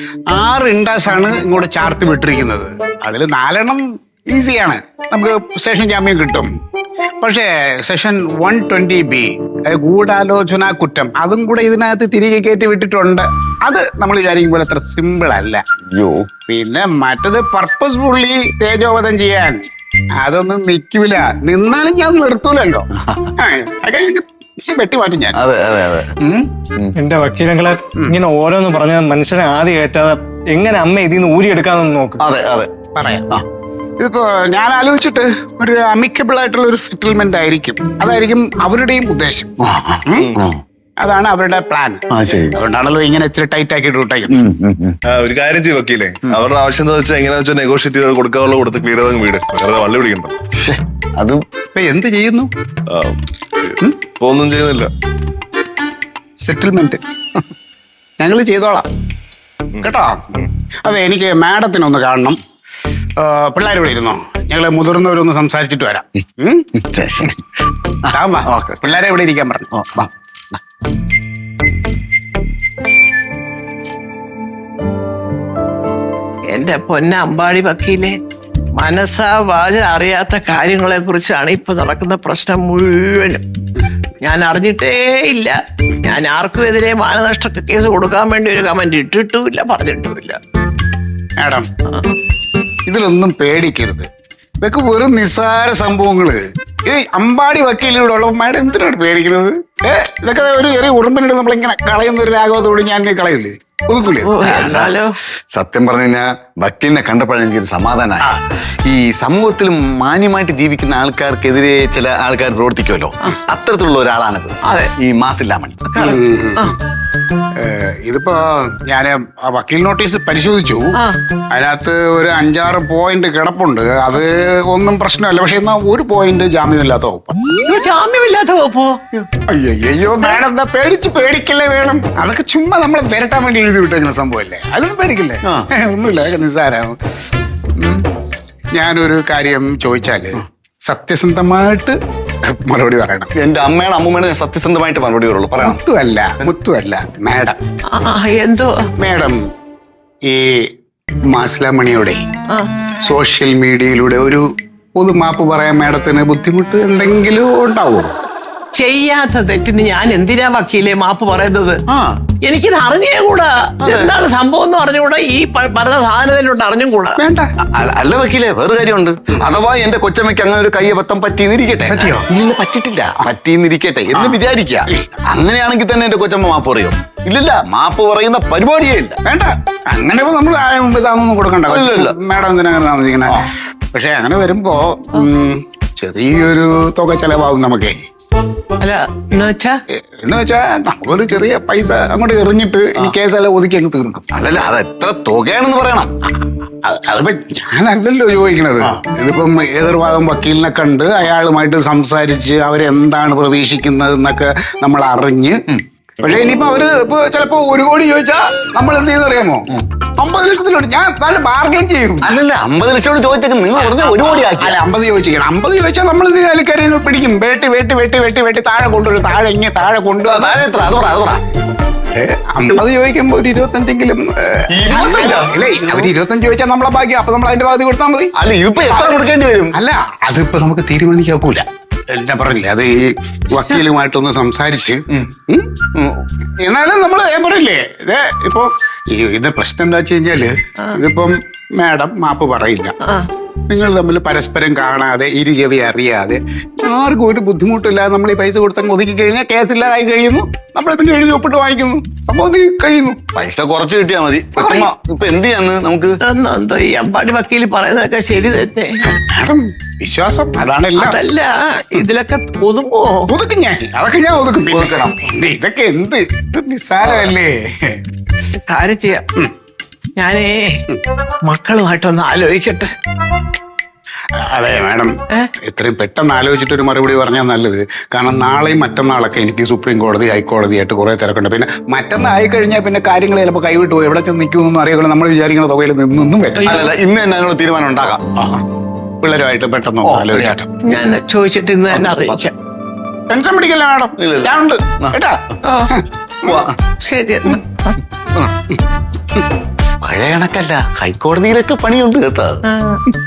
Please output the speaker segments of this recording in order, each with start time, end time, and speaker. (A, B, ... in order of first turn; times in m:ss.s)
0:00.3-0:06.5 A
0:07.2-0:15.6 A
0:15.9-0:16.3 B
0:16.5-0:19.6 A
0:20.2-0:25.4 A
0:25.3-0:26.1 B
0:26.2-0:26.5 A
0:27.0-0:32.2 C
0:32.2-0:32.7 B
0:32.9-0:33.3 A
0:34.0-0:39.5 A
0:39.6-0:40.6 B
0:40.1-0:40.4 A
0:41.0-0:44.4 A
0:42.1-0:42.6 B
0:44.3-0:45.0 B
0:45.1-0:50.4 D
0:50.5-0:51.4 B
0:51.7-0:52.5 A
0:52.9-0:54.9 D
0:56.4-0:57.0 A
0:58.2-0:58.9 A
0:59.8-1:02.4 A
1:03.2-1:06.7 A
1:06.8-1:07.4 B
1:08.0-1:08.9 B
1:08.1-1:09.7 A
1:09.7-1:10.6 B
1:16.5-1:18.2 E
1:18.8-1:23.4 E
1:24.2-1:30.4 E
1:31.4-1:31.7 A
1:32.9-1:44.8 A
1:44.2-1:45.1 E
1:44.5-1:44.9 B
1:45.5-1:48.3 B
1:48.8-1:55.8 B
1:54.6-1:54.9 E
1:55.9-1:56.7 E
1:56.0-1:56.7 A
1:57.6-2:00.9 A
2:01.5-2:07.3 A
2:07.6-2:09.0 E
2:09.5-2:17.0 A
2:15.4-2:16.3 B
2:17.8-2:18.0 A
2:18.7-2:23.3 A
2:23.3-2:25.8 B
2:25.6-2:27.6 A
2:27.9-2:28.9 E
2:29.0-2:29.4 A
2:30.2-2:30.7 A
2:31.3-2:32.2 A
2:33.0-2:38.2 A
2:38.7-2:41.8 E
2:41.9-2:42.2 B
2:42.4-2:47.2 E
2:43.8-2:44.1 B
2:47.2-2:47.5 A
2:47.7-2:59.2 B
2:51.9-2:52.3 A
2:54.1-2:55.2 A
2:59.2-3:08.0 A
3:01.7-3:02.2 B
3:08.8-3:09.8 E
3:10.1-3:14.3 A
3:14.3-3:16.1 B
3:16.8-3:25.6 A
3:26.2-3:29.7 A
3:30.2-3:32.4 A
3:32.2-3:34.8 B
3:33.8-3:40.6 A
3:40.2-3:41.4 B
3:42.1-3:48.3 A
3:44.7-3:45.5 B
3:45.1-3:46.1 E
3:48.4-3:49.7 B
3:48.8-3:55.7 A
3:55.9-3:56.2 B
3:56.6-4:02.9 A
4:03.0-4:03.3 E
4:03.7-4:13.2 A
4:13.3-4:16.2 B
4:14.6-4:14.9 A
4:16.2-4:19.0 E
4:19.1-4:21.2 A
4:21.0-4:23.3 E
4:23.3-4:28.0 A
4:24.7-4:25.1 B
4:28.7-4:29.2 E
4:30.2-4:30.8 E
4:31.5-4:32.9 E
4:34.5-4:46.9 A
4:46.6-4:48.6 B
4:49.2-4:50.7 A
4:50.0-4:51.0 B
4:50.8-4:52.5 E
4:51.9-4:52.4 B
4:53.3-4:56.6 A
4:54.2-4:55.2 B
4:55.6-4:55.9 E
4:56.4-4:56.8 B
4:57.0-4:57.9 E
4:58.3-4:58.6 B
5:00.0-5:02.6 B
5:02.7-5:03.0 E